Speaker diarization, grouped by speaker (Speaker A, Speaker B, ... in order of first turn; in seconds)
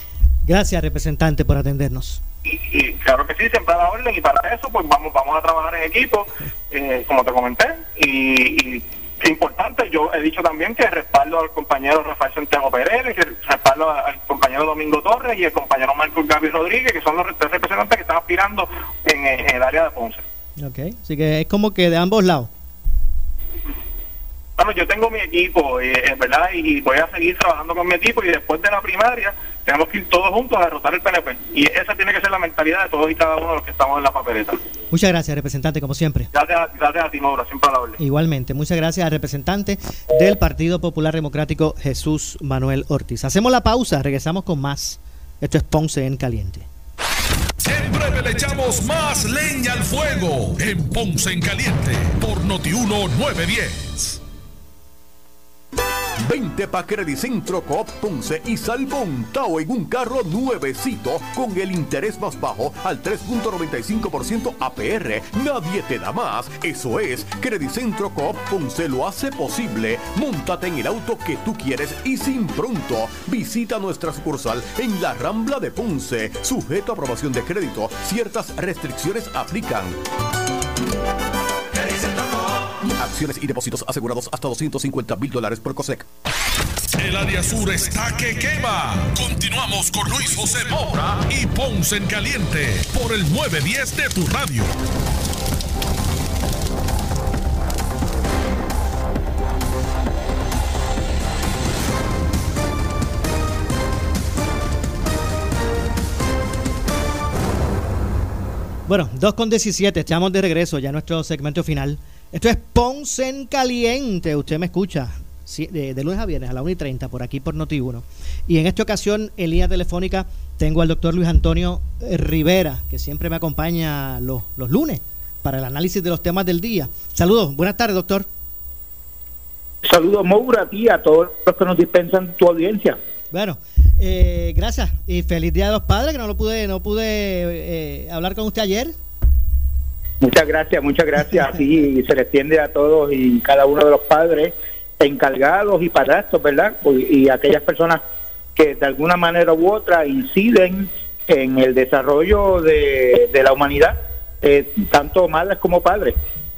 Speaker A: 0.5-2.2, 20.6-22.5, 34.9-36.3, 38.0-46.7, 108.9-128.3, 133.3-139.0
Speaker B: 2.5-20.2, 24.6-34.6, 36.3-38.0
Speaker C: 47.6-54.2, 87.0-94.7
Speaker D: 56.2-80.0, 83.0-86.1
Speaker E: 129.8-133.0, 140.2-148.0, 148.6-156.2